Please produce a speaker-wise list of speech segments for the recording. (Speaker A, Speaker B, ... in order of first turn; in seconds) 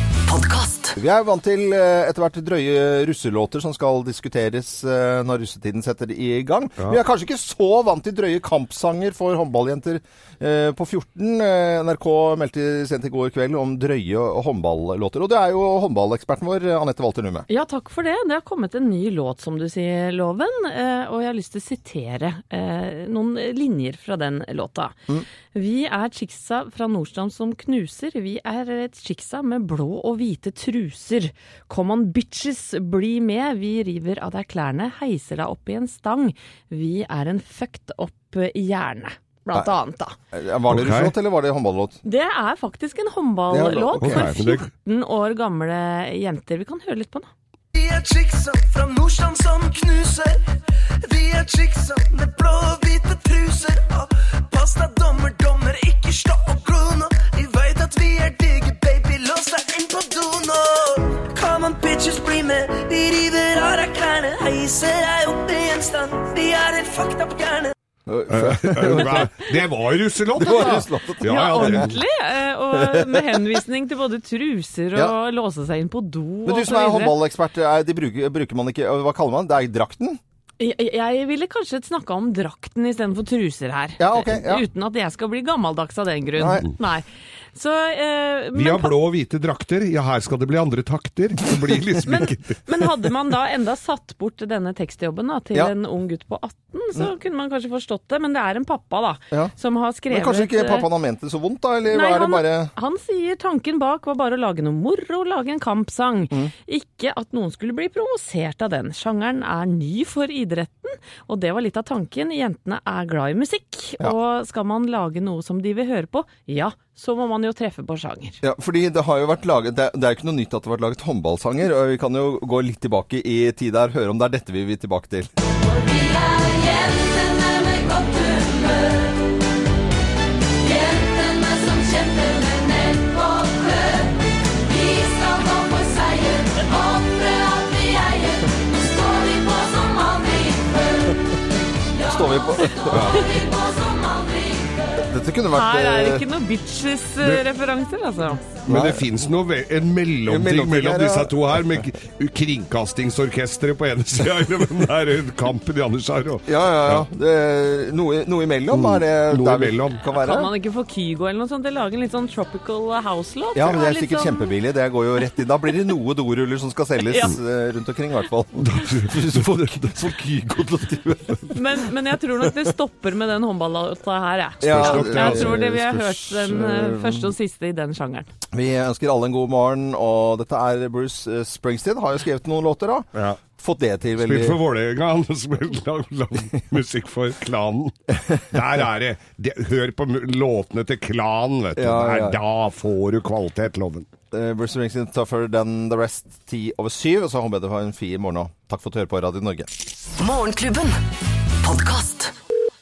Speaker A: 0.2-1.0, 125.8-128.9, 130.7-134.1, 134.7-140.9, 143.8-144.6, 200.2-201.0, 201.6-202.3
Speaker B: 1.0-17.5, 40.3-42.0, 43.5-44.3, 68.1-69.4, 70.3-71.9, 72.7-73.4, 76.5-80.2, 84.0-84.7, 86.4-86.7, 100.1-102.7, 118.4-125.3, 142.0-143.3, 145.0-146.3, 148.7-149.1, 150.3-151.8, 156.5-160.5, 163.6-171.7, 172.4-172.7, 174.6-177.3, 178.5-184.6, 191.8-192.4, 194.3-199.7
Speaker C: 17.5-24.9, 25.5-40.2, 42.0-47.3, 71.2-77.2, 80.6-88.9, 92.0-100.9, 101.9-118.4, 145.5-148.4, 160.1-164.5, 167.1-167.4, 171.5-178.3
Speaker D: 40.7-41.1, 44.0-44.7, 68.3-72.0, 88.5-92.6, 142.9-143.3, 148.7-157.1, 158.7-160.0, 168.6-170.0, 174.6-175.6, 183.2-183.4, 184.2-194.1
Speaker E: 47.7-50.4, 51.0-67.7